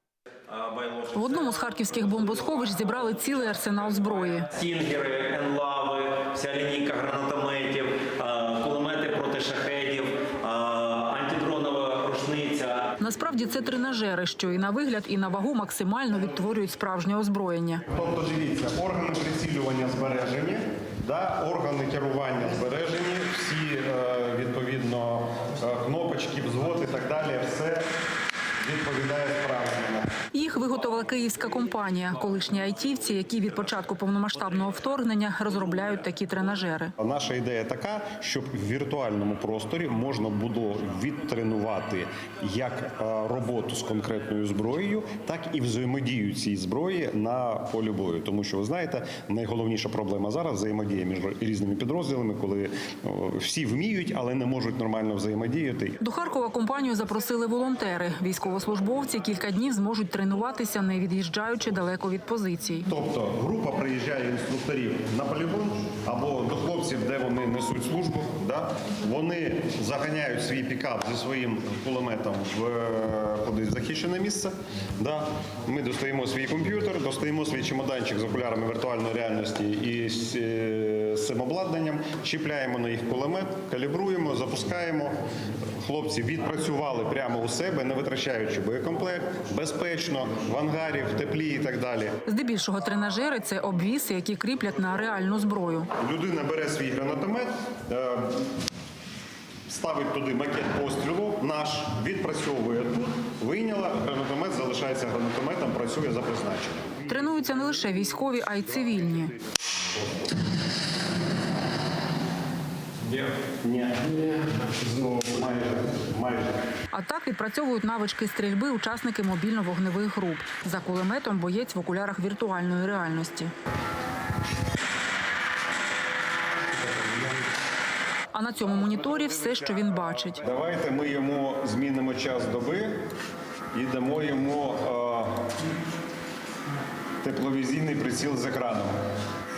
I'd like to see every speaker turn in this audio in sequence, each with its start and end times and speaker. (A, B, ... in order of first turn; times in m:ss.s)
0:00.5-0:02.2 A
0:01.1-0:04.5 B
0:04.5-0:12.9 A
0:13.0-0:17.8 B
0:17.9-0:27.9 C
0:28.6-0:30.1 C
0:30.3-0:36.9 B
0:37.0-0:56.0 C
0:56.0-1:02.9 B
1:02.9-1:25.2 C
1:25.8-1:32.2 C
1:32.3-1:35.9 B
1:36.0-1:38.4 C
1:39.7-1:47.1 C
1:47.1-1:49.3 B
1:53.1-1:56.6 C
1:56.9-2:03.5 B
2:08.3-2:10.4 B
2:10.4-2:13.0 C
2:13.7-2:15.4 C
2:17.2-2:19.0 C